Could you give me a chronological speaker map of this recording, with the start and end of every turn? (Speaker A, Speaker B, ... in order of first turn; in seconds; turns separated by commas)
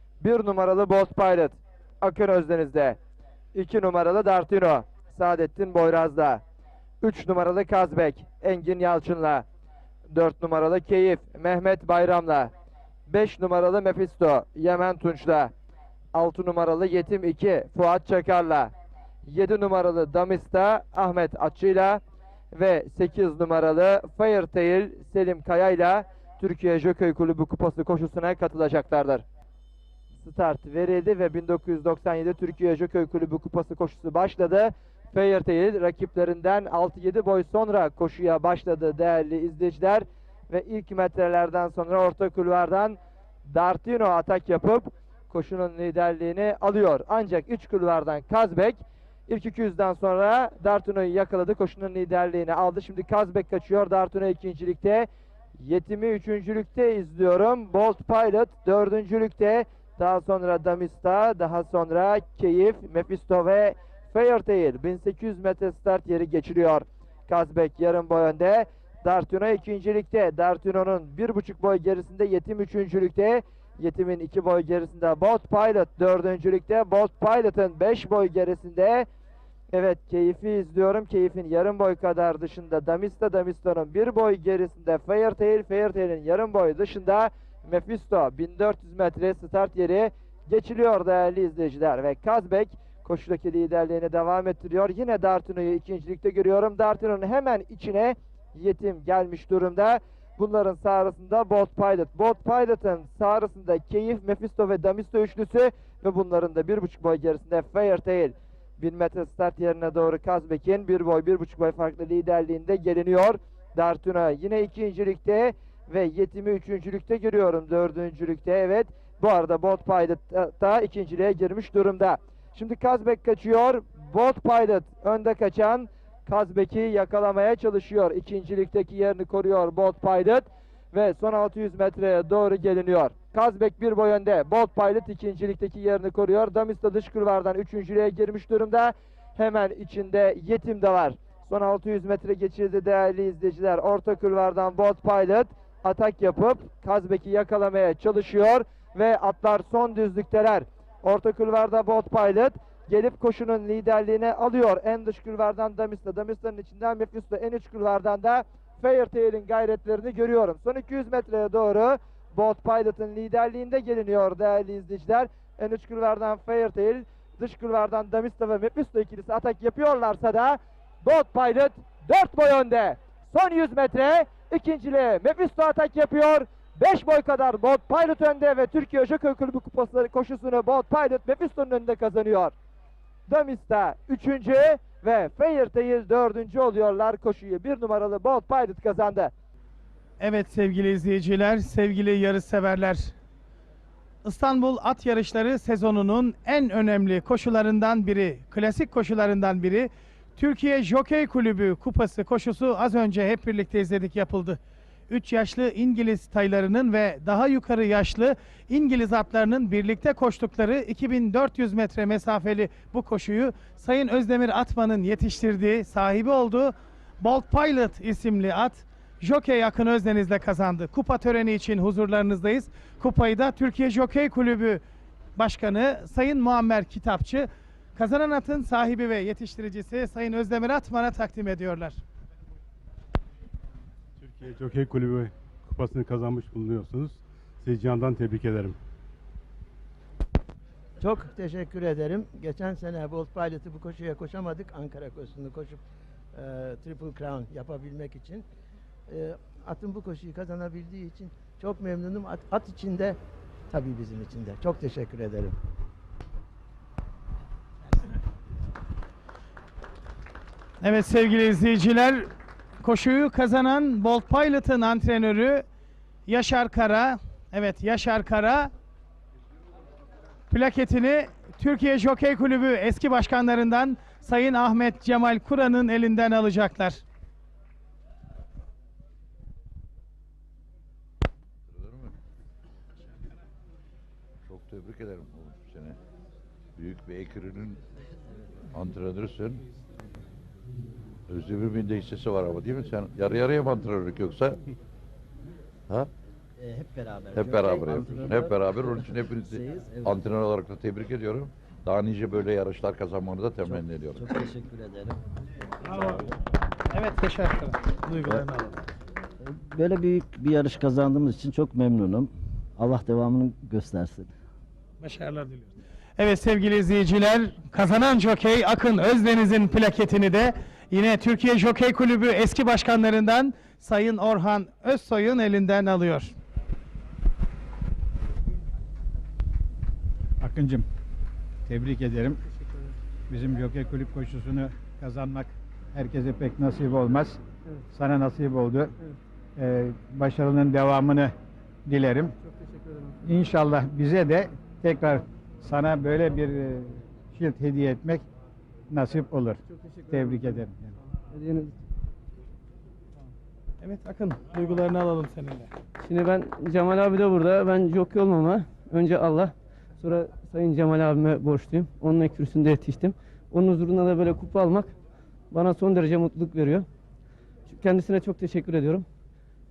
Speaker A: 0.2-3.0, Speaker A: 3.5-6.4, Speaker A: 7.0-9.4, Speaker A: 10.1-12.5, Speaker A: 13.1-15.5, Speaker A: 16.1-18.7, Speaker A: 19.2-22.0, Speaker A: 22.5-29.2, Speaker A: 30.2-55.1, Speaker A: 55.6-79.1, Speaker A: 79.7-182.5, Speaker A: 183.3-189.3, Speaker B: 190.2-193.1, Speaker B: 194.2-224.8, Speaker B: 225.4-232.0, Speaker C: 234.2-238.8, Speaker D: 241.0-245.8, Speaker D: 246.3-248.4, Speaker D: 249.1-253.2, Speaker D: 253.7-255.6, Speaker B: 260.8-262.3, Speaker B: 262.8-265.6, Speaker B: 266.3-268.7, Speaker B: 270.5-277.0, Speaker E: 281.7-282.1, Speaker E: 284.5-286.0, Speaker E: 286.8-287.8, Speaker E: 288.7-289.6, Speaker E: 291.3-294.6, Speaker F: 296.6-300.4, Speaker E: 297.3-304.3, Speaker F: 303.6-305.2, Speaker B: 305.9-306.2, Speaker B: 306.9-308.7, Speaker F: 309.4-314.3, Speaker B: 315.0-326.3, Speaker G: 330.4-330.9, Speaker G: 331.6-332.4, Speaker G: 333.3-337.4, Speaker G: 337.9-338.9, Speaker G: 339.6-341.3, Speaker G: 341.9-342.3, Speaker H: 342.4-343.2, Speaker G: 343.2-348.2, Speaker G: 348.9-350.9, Speaker H: 349.7-350.6, Speaker H: 351.3-351.7, Speaker B: 353.8-355.7, Speaker H: 356.0-364.9, Speaker H: 365.5-366.9, Speaker H: 367.7-369.1